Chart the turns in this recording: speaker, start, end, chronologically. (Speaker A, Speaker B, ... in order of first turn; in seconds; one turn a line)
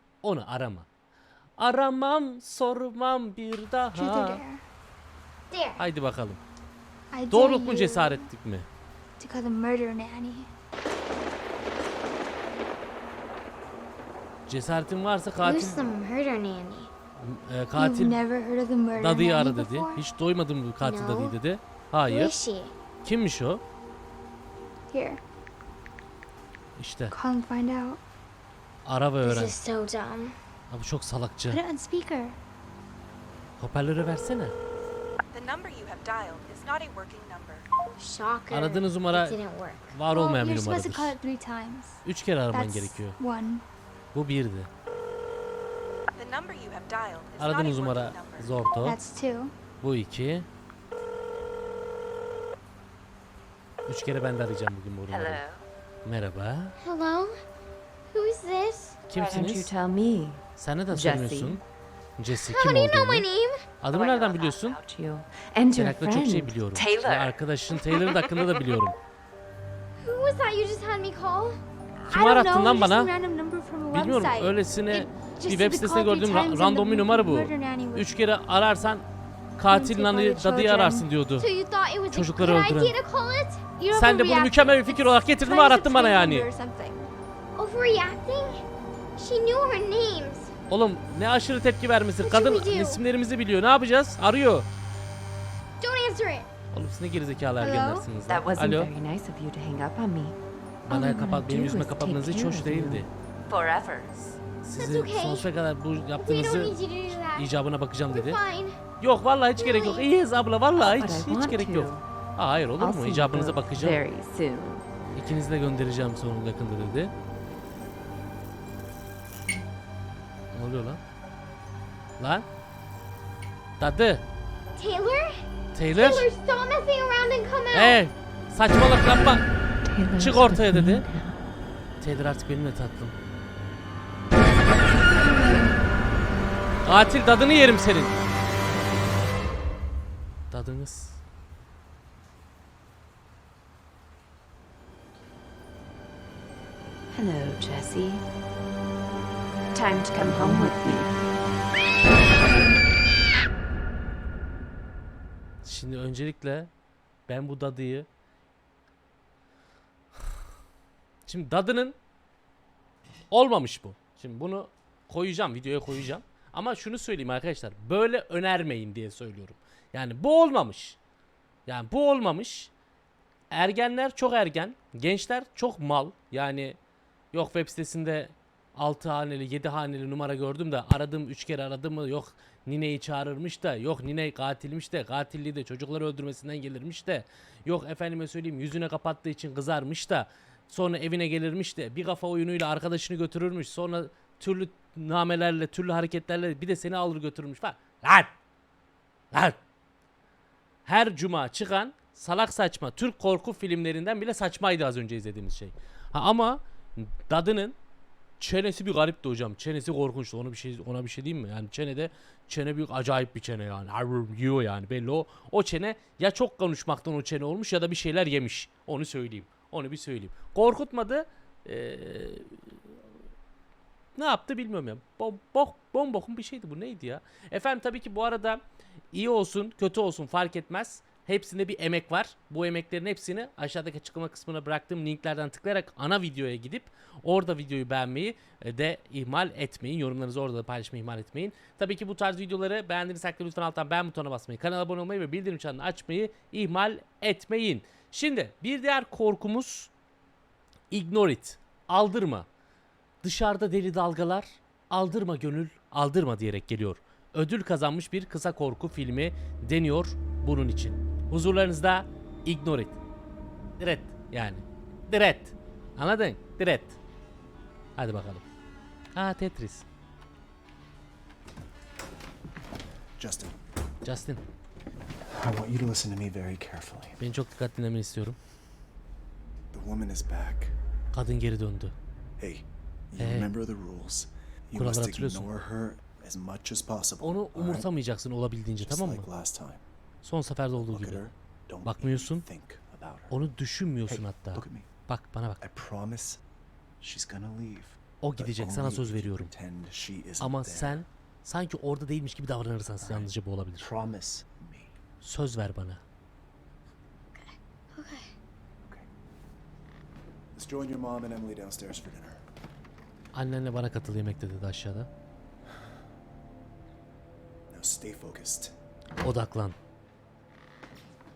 Speaker A: 0.2-0.9
Speaker A: 1.6-4.4
Speaker B: 3.9-4.6
Speaker C: 5.5-5.8
Speaker A: 5.8-6.4
Speaker B: 7.1-8.3
Speaker A: 7.3-8.7
Speaker B: 9.2-10.5
Speaker A: 14.5-15.9
Speaker C: 15.4-16.9
Speaker A: 17.2-18.2
Speaker B: 17.8-20.1
Speaker A: 18.9-22.3
Speaker C: 20.8-21.4
Speaker C: 22.1-22.7
Speaker A: 23.0-23.6
Speaker B: 24.9-25.2
Speaker A: 26.8-27.1
Speaker B: 27.1-28.0
Speaker A: 28.9-29.6
Speaker C: 29.2-30.4
Speaker A: 30.7-31.6
Speaker B: 31.5-32.4
Speaker A: 33.6-34.6
Speaker D: 35.3-37.7
Speaker C: 38.0-40.0
Speaker A: 38.5-39.4
Speaker A: 39.9-41.2
Speaker B: 40.1-42.0
Speaker A: 42.0-43.1
Speaker B: 42.5-43.6
Speaker A: 44.1-44.7
Speaker D: 46.2-48.6
Speaker A: 47.4-49.0
Speaker B: 48.8-49.5
Speaker A: 49.8-50.5
Speaker A: 53.9-55.4
Speaker E: 55.1-55.6
Speaker A: 56.0-56.8
Speaker C: 56.8-57.4
Speaker C: 58.1-59.0
Speaker A: 59.1-59.7
Speaker E: 59.1-61.6
Speaker A: 60.6-61.6
Speaker A: 62.2-63.3
Speaker C: 62.4-63.6
Speaker A: 63.8-64.8
Speaker E: 63.9-67.3
Speaker A: 65.7-69.0
Speaker C: 70.0-71.6
Speaker A: 72.1-73.1
Speaker B: 72.1-78.1
Speaker A: 73.9-79.1
Speaker A: 79.6-81.5
Speaker B: 79.6-81.1
Speaker C: 81.4-83.8
Speaker A: 82.1-83.0
Speaker B: 83.8-87.1
Speaker A: 83.9-86.5
Speaker C: 87.6-88.6
Speaker C: 89.2-90.5
Speaker A: 90.7-94.7
Speaker C: 92.2-93.0
Speaker C: 95.8-96.5
Speaker A: 96.7-98.9
Speaker C: 97.6-98.0
Speaker E: 98.2-100.4
Speaker A: 100.9-103.1
Speaker E: 100.9-104.1
Speaker A: 104.4-106.8
Speaker C: 104.8-105.5
Speaker C: 106.2-107.5
Speaker A: 107.3-108.4
Speaker C: 108.1-108.8
Speaker A: 109.0-114.0
Speaker C: 109.6-110.1
Speaker E: 110.7-112.0
Speaker E: 112.8-114.8
Speaker A: 115.2-117.1
Speaker A: 120.5-121.0
Speaker A: 122.2-122.5
Speaker A: 123.8-124.2
Speaker C: 124.8-128.0
Speaker A: 125.7-126.3
Speaker A: 127.7-129.4
Speaker E: 129.8-131.4
Speaker A: 130.2-131.1
Speaker A: 132.0-133.1
Speaker A: 136.8-138.2
Speaker A: 140.5-141.2
Speaker E: 147.1-148.2
Speaker E: 149.7-151.2
Speaker A: 155.6-156.7
Speaker A: 157.3-158.1
Speaker A: 161.3-161.9
Speaker A: 163.3-171.0
Speaker A: 171.7-172.7
Speaker A: 173.5-176.8
Speaker A: 177.3-198.3
Speaker A: 199.3-199.6
Speaker A: 200.9-207.8
Speaker A: 208.4-222.8
Speaker A: 224.2-249.9
Speaker A: 250.9-252.5
Speaker A: 253.2-263.0
Speaker A: 263.8-267.0
Speaker A: 268.0-268.4
Speaker A: 269.1-269.9
Speaker F: 273.2-273.6
Speaker A: 274.1-274.4
Speaker F: 275.2-277.2
Speaker A: 277.2-278.4
Speaker F: 279.7-280.7
Speaker A: 281.1-281.9
Speaker F: 282.4-287.9
Speaker A: 283.2-283.5
Speaker A: 284.8-285.5
Speaker A: 287.2-289.3
Speaker F: 288.8-289.8
Speaker A: 290.2-291.2
Speaker F: 290.8-293.4
Speaker A: 291.9-292.4
Speaker A: 293.3-295.6
Speaker F: 294.1-294.9
Speaker F: 295.6-296.4
Speaker F: 297.0-301.0
Speaker A: 298.2-299.5
Speaker A: 300.4-303.9
Speaker F: 303.0-304.9
Speaker A: 305.2-306.0
Speaker C: 307.4-308.3
Speaker F: 310.5-312.4
Speaker A: 313.3-315.1
Speaker F: 317.7-318.7
Speaker A: 319.2-319.8